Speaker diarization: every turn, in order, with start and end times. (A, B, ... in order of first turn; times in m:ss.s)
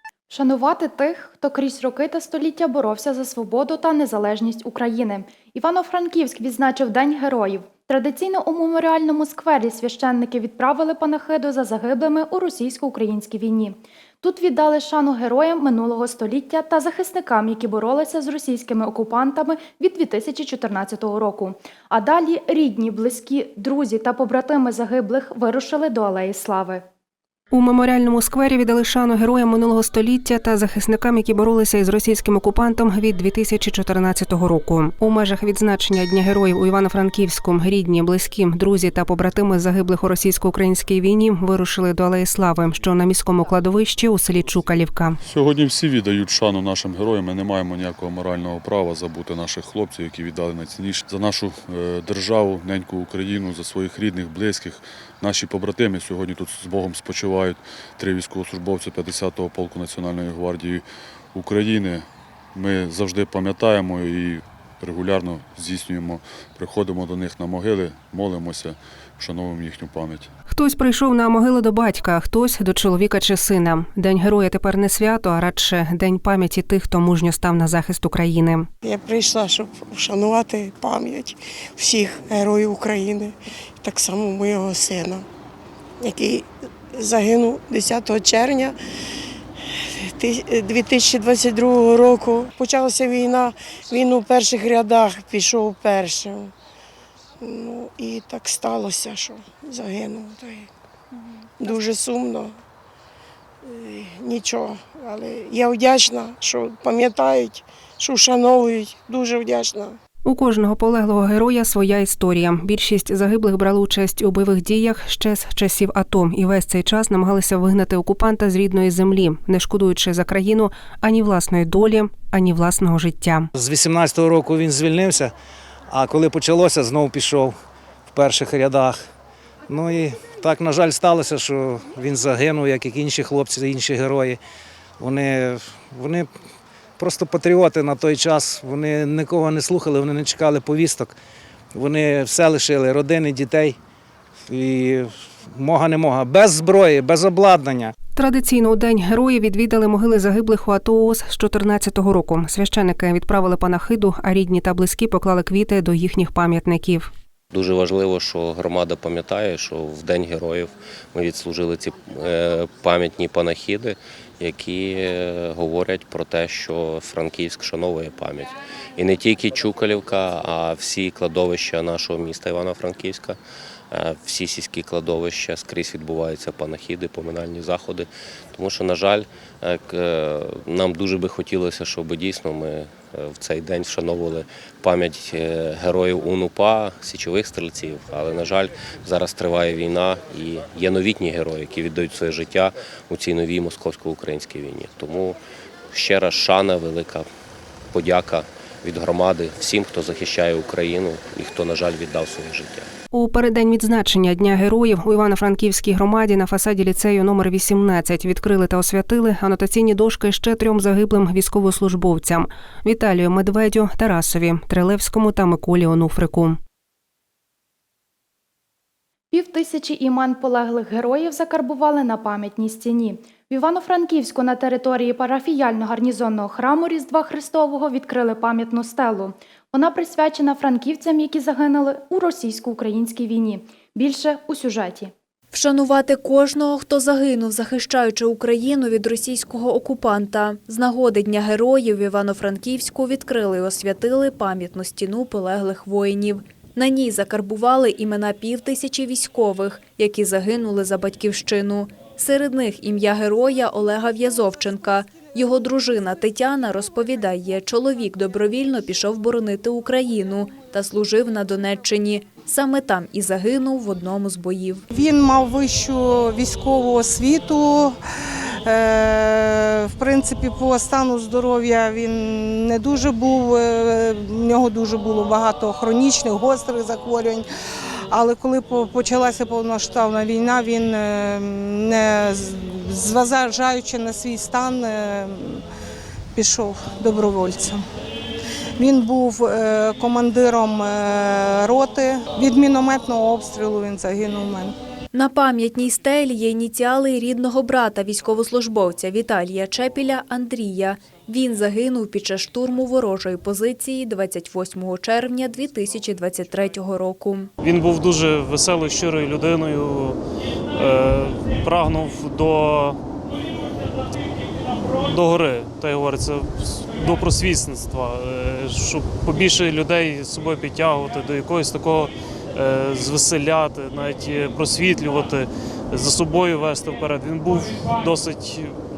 0:00.3-0:26.8 A
0:27.5-0:45.2 B
0:45.2-1:10.3 C
1:10.5-1:18.7 B
1:18.8-1:25.2 D
1:26.0-1:28.8 D
1:30.1-1:36.5 D
1:37.4-1:40.7 D
1:41.6-1:42.5 D
1:43.6-1:50.0 D
1:50.2-2:03.5 B
2:03.6-2:03.9 E
2:04.4-2:05.2 E
2:06.0-2:07.5 E
2:08.2-2:08.9 E
2:09.7-2:10.1 E
2:10.7-2:14.3 E
2:17.2-2:21.0 E
2:22.7-2:23.5 E
2:25.6-2:27.9 E
2:28.2-2:37.1 B
2:37.5-2:53.4 F
2:53.9-3:15.4 F
3:15.9-3:17.3 F
3:17.9-3:22.9 F
3:23.1-3:36.6 B
3:39.3-3:55.1 A
3:55.5-4:24.8 G
4:24.9-4:28.0 H
4:28.6-4:37.4 H
4:38.1-4:45.6 H
4:46.3-4:47.8 H
4:48.8-4:54.8 H
4:55.1-5:07.5 G
5:07.6-5:10.2 I
5:10.7-5:13.0 I
5:14.9-5:28.8 I